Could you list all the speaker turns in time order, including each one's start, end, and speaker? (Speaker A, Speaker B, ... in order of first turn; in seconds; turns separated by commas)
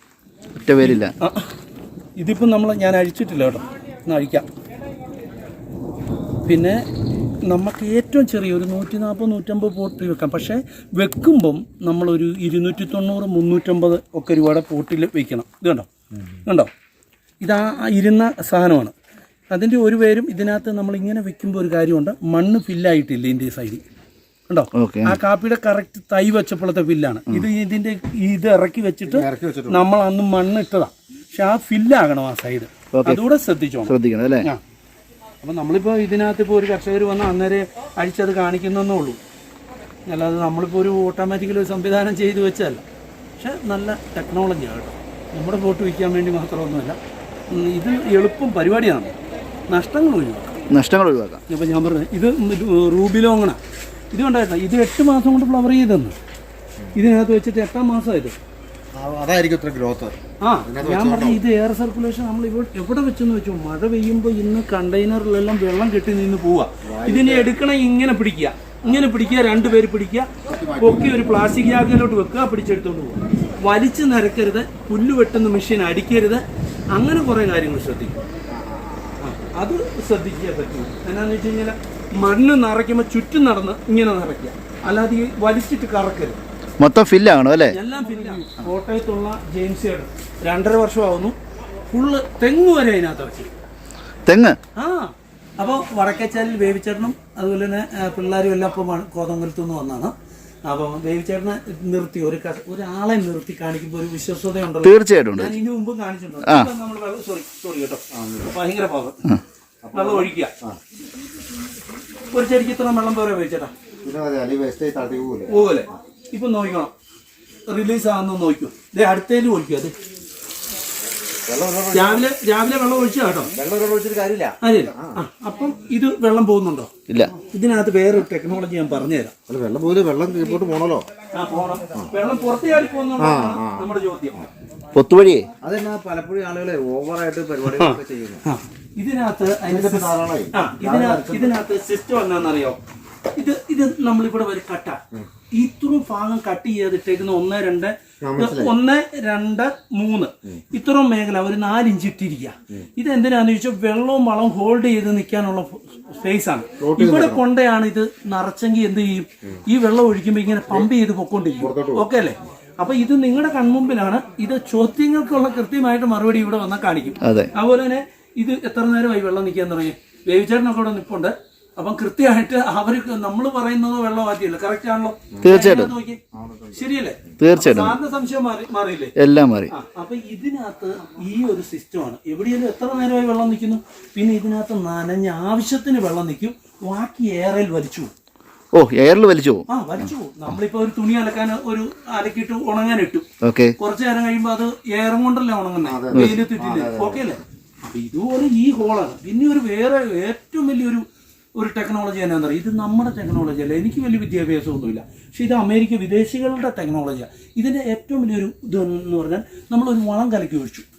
Speaker A: 0.7-1.1, Speaker B: 0.8-1.5, Speaker B: 2.2-4.5, Speaker B: 6.5-6.8, Speaker B: 7.5-15.9, Speaker B: 16.4-16.7, Speaker B: 17.4-18.9, Speaker B: 19.5-23.8, Speaker B: 24.5-34.6, Speaker A: 24.8-25.2, Speaker C: 29.1-29.8, Speaker A: 32.9-33.2, Speaker A: 33.9-34.5, Speaker B: 35.4-39.2, Speaker B: 40.1-42.8, Speaker B: 43.4-47.0, Speaker B: 47.5-49.1, Speaker B: 49.7-50.4, Speaker A: 50.7-51.4, Speaker B: 51.5-53.6, Speaker B: 54.1-56.1, Speaker B: 56.9-58.4, Speaker C: 58.9-61.4, Speaker B: 60.4-76.4, Speaker C: 66.8-67.5, Speaker C: 70.5-71.2, Speaker B: 76.9-78.2, Speaker C: 78.6-79.1, Speaker B: 79.2-86.4, Speaker A: 86.8-87.8, Speaker B: 87.7-91.4, Speaker B: 91.9-93.5, Speaker A: 94.2-94.6, Speaker B: 94.8-109.2, Speaker A: 104.8-105.5, Speaker A: 106.4-106.7, Speaker C: 108.1-108.5, Speaker C: 109.8-110.8, Speaker B: 109.9-110.5, Speaker B: 112.3-113.7, Speaker C: 114.0-115.5, Speaker B: 115.5-116.9, Speaker B: 117.7-119.9, Speaker C: 121.5-122.3, Speaker B: 121.9-123.5, Speaker C: 123.5-125.2, Speaker B: 124.6-129.3, Speaker C: 129.5-131.1, Speaker B: 131.3-134.5, Speaker C: 133.2-133.9, Speaker A: 134.9-135.5, Speaker C: 135.6-138.4, Speaker B: 137.7-142.8, Speaker C: 139.7-141.5, Speaker B: 143.3-145.0, Speaker B: 145.5-179.1, Speaker C: 148.2-148.8, Speaker C: 156.8-157.4, Speaker C: 161.6-162.1, Speaker A: 167.2-167.5, Speaker A: 175.4-175.9, Speaker C: 176.3-176.7, Speaker A: 177.4-178.0, Speaker A: 179.2-179.7, Speaker B: 179.7-188.1, Speaker A: 188.8-189.7, Speaker B: 189.7-193.2, Speaker A: 193.4-193.7, Speaker B: 193.8-201.0, Speaker C: 195.8-197.3, Speaker A: 196.1-196.4, Speaker B: 201.6-210.9